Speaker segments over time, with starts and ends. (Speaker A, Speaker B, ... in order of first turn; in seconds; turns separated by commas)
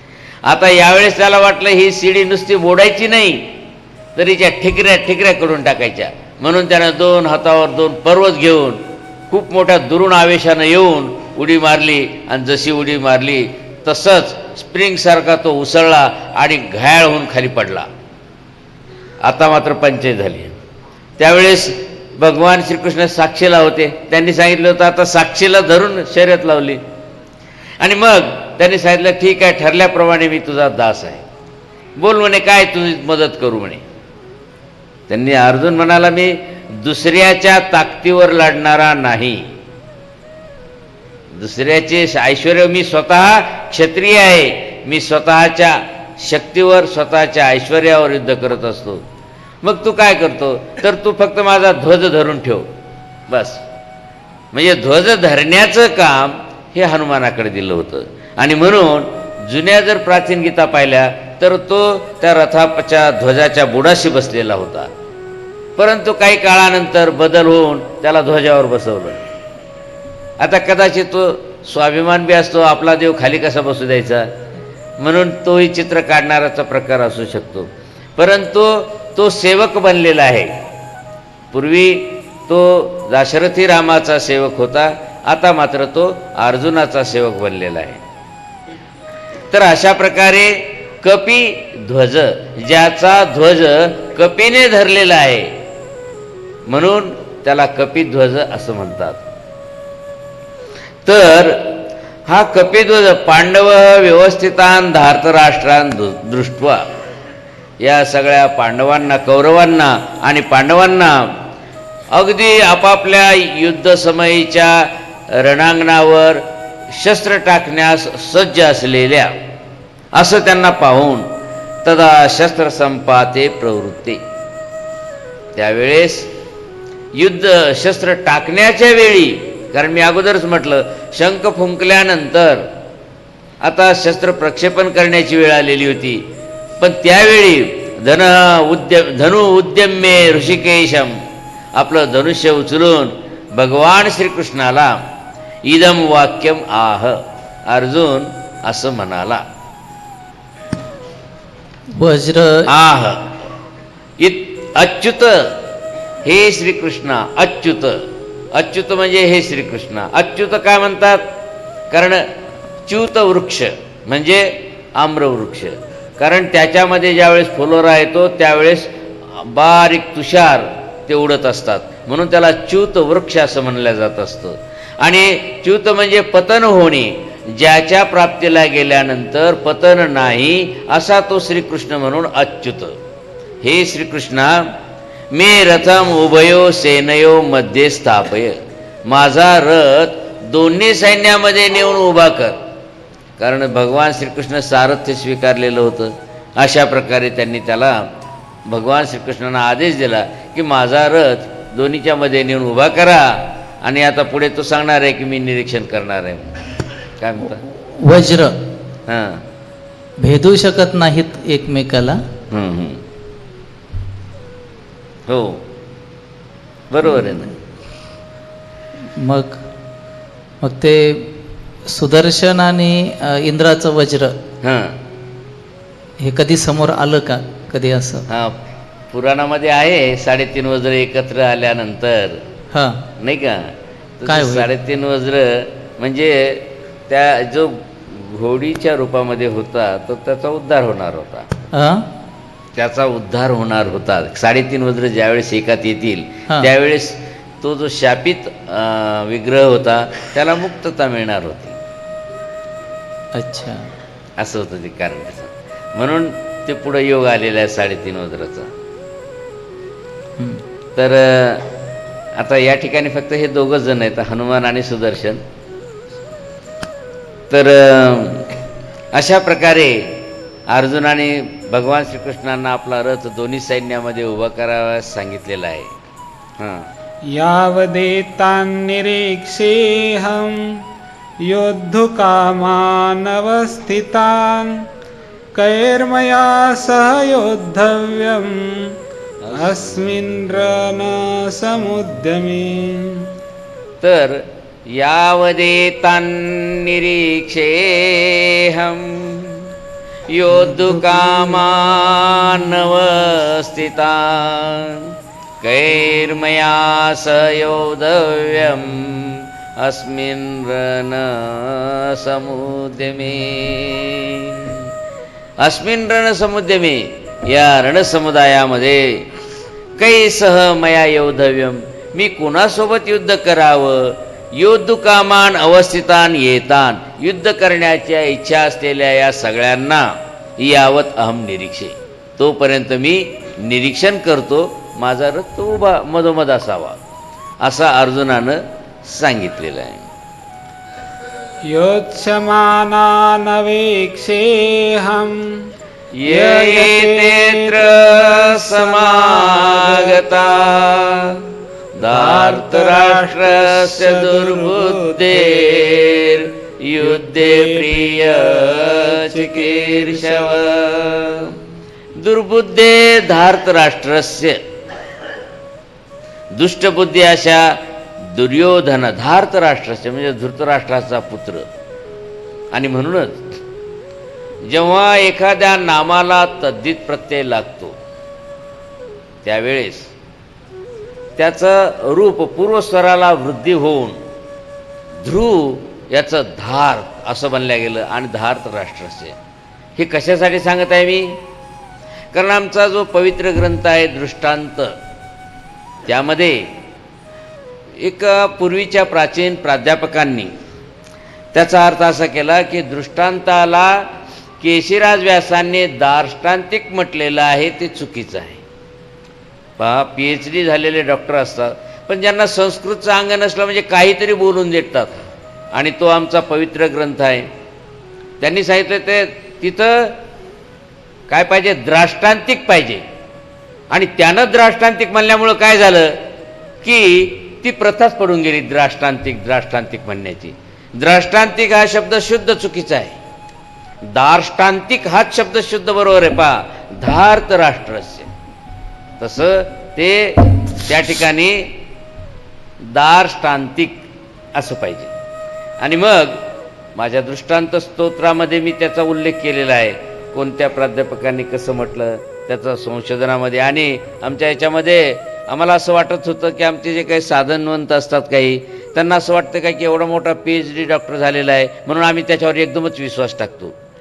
Speaker A: 0.5-3.5, Speaker A: 4.2-17.9, Speaker A: 19.2-20.6, Speaker A: 21.2-26.8, Speaker A: 27.8-31.2, Speaker A: 32.0-33.8, Speaker A: 35.1-39.5, Speaker A: 41.4-49.0, Speaker A: 49.6-52.7, Speaker A: 53.3-53.6, Speaker A: 54.5-64.9, Speaker A: 65.8-69.2, Speaker A: 70.4-74.3, Speaker A: 75.0-80.6, Speaker A: 81.5-88.0, Speaker A: 89.5-95.5, Speaker A: 96.7-99.2, Speaker A: 101.1-106.9, Speaker A: 107.8-111.3, Speaker A: 112.1-119.4, Speaker A: 120.1-121.3, Speaker A: 121.8-124.2, Speaker A: 125.5-126.3, Speaker A: 127.2-132.7, Speaker A: 133.6-136.2, Speaker A: 136.8-141.2, Speaker A: 141.8-145.0, Speaker A: 145.7-149.4, Speaker B: 152.0-152.7, Speaker A: 152.7-153.3, Speaker A: 154.2-155.6, Speaker A: 156.2-161.2, Speaker A: 161.9-162.3, Speaker A: 162.9-183.0, Speaker A: 183.6-184.7, Speaker A: 185.3-192.6, Speaker A: 193.4-198.1, Speaker A: 198.7-206.6, Speaker A: 207.2-207.6, Speaker B: 208.0-208.6, Speaker A: 209.1-209.4, Speaker B: 210.2-212.2, Speaker A: 212.5-213.0, Speaker A: 215.3-215.6, Speaker A: 216.9-217.6, Speaker B: 219.2-219.6, Speaker B: 220.6-221.3, Speaker B: 221.9-224.4, Speaker A: 224.6-225.0, Speaker B: 226.2-228.3, Speaker A: 228.3-228.6, Speaker A: 229.1-232.4, Speaker B: 232.7-233.1, Speaker A: 233.2-241.5, Speaker B: 234.3-234.7, Speaker B: 241.7-242.1, Speaker A: 242.8-251.8, Speaker B: 253.3-253.8, Speaker A: 254.4-258.7, Speaker A: 261.0-261.7, Speaker A: 262.4-265.4, Speaker A: 267.5-268.5, Speaker A: 269.1-275.9, Speaker A: 276.6-276.9, Speaker C: 277.3-280.8, Speaker C: 281.4-284.8, Speaker C: 285.6-289.0, Speaker A: 289.4-289.8, Speaker C: 289.5-293.3, Speaker A: 294.0-299.7, Speaker A: 300.3-314.8, Speaker C: 301.1-301.4, Speaker A: 315.6-319.3, Speaker A: 320.0-337.0, Speaker A: 337.6-340.1, Speaker C: 341.6-345.7, Speaker A: 346.1-351.4, Speaker C: 346.3-350.2, Speaker A: 351.9-361.6, Speaker C: 352.0-355.9, Speaker C: 357.0-360.5, Speaker A: 362.2-364.6, Speaker A: 366.5-371.6, Speaker A: 372.7-373.4, Speaker A: 374.7-377.9, Speaker A: 379.4-380.1, Speaker A: 381.4-384.2, Speaker A: 385.2-389.4, Speaker A: 390.0-391.4, Speaker A: 392.3-395.0, Speaker A: 396.1-396.7, Speaker A: 398.0-400.6, Speaker A: 401.5-404.1, Speaker A: 404.6-408.6, Speaker A: 409.8-417.5, Speaker A: 418.4-420.2, Speaker A: 421.3-423.1, Speaker A: 423.9-426.2, Speaker A: 426.8-433.2, Speaker A: 434.1-438.3, Speaker A: 439.2-441.7, Speaker A: 442.8-444.0, Speaker A: 444.5-445.1, Speaker A: 445.8-446.4, Speaker A: 446.9-463.8